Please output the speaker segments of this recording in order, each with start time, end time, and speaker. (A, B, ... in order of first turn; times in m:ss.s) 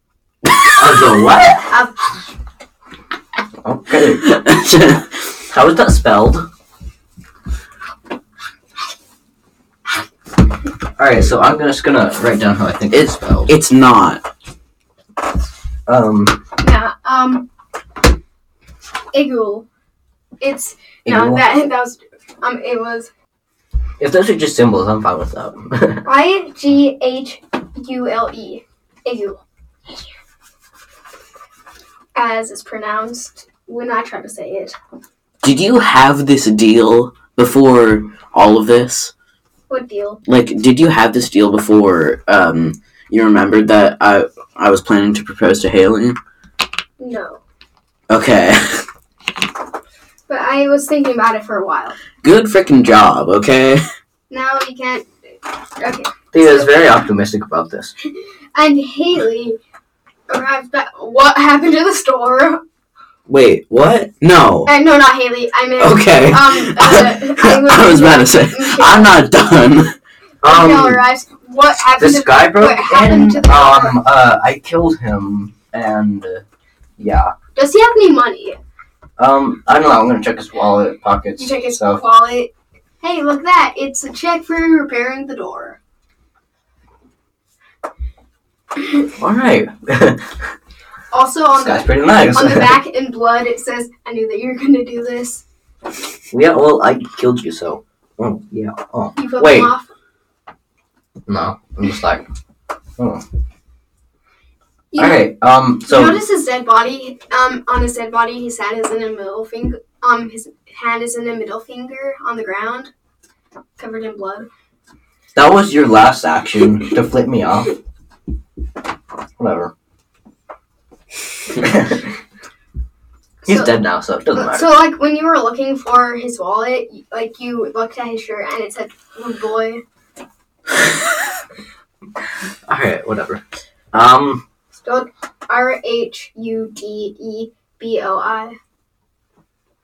0:00.6-0:01.1 A
0:00.8-0:01.7 B
0:01.7-0:01.9 C
0:03.6-0:04.3 B
0:04.2-0:05.2 A
0:05.5-0:06.5 B
0:11.0-0:13.5 B
0:12.9-0:14.2 A
0:15.9-0:16.4 B
0:16.6-0:17.5 C
0:19.1-0:19.6 C
0:20.4-0:23.1 C
0:21.0-0:21.4 B
0:24.0-0:26.0 B
0:26.0-0:29.4 C
0:32.1-0:34.7 C
0:35.4-0:39.1 A
0:39.7-0:40.2 C
0:40.2-0:46.2 A
0:47.0-0:47.4 C
0:48.1-0:48.8 A
0:50.3-0:52.0 C
0:52.2-0:53.8 A
0:54.3-0:55.1 C
0:55.8-0:56.9 C
0:56.3-0:57.9 B
0:58.5-0:59.6 C
1:00.3-1:02.6 C
1:03.3-1:04.1 B
1:04.2-1:04.7 A
1:04.6-1:09.2 C
1:05.8-1:09.9 A
1:10.4-1:11.0 B
1:10.4-1:14.0 C
1:12.0-1:16.4 B
1:17.0-1:17.3 B
1:17.6-1:18.6 C
1:19.2-1:22.0 B
1:21.4-1:22.5 C
1:23.0-1:25.8 C
1:29.2-1:30.4 B
1:31.1-1:35.4 C
1:31.5-1:32.8 B
1:36.3-1:39.7 B
1:39.2-1:39.9 C
1:41.3-1:42.2 B
1:43.0-1:43.2 B
1:44.9-1:45.3 C
1:45.0-1:46.2 B
1:45.8-1:52.9 C
1:53.8-1:54.5 C
1:55.3-1:57.8 B
1:59.4-1:59.7 B
2:01.5-2:02.1 B
2:03.4-2:03.8 C
2:03.4-2:04.7 B
2:04.3-2:09.8 C
2:12.7-2:14.4 B
2:14.8-2:18.6 C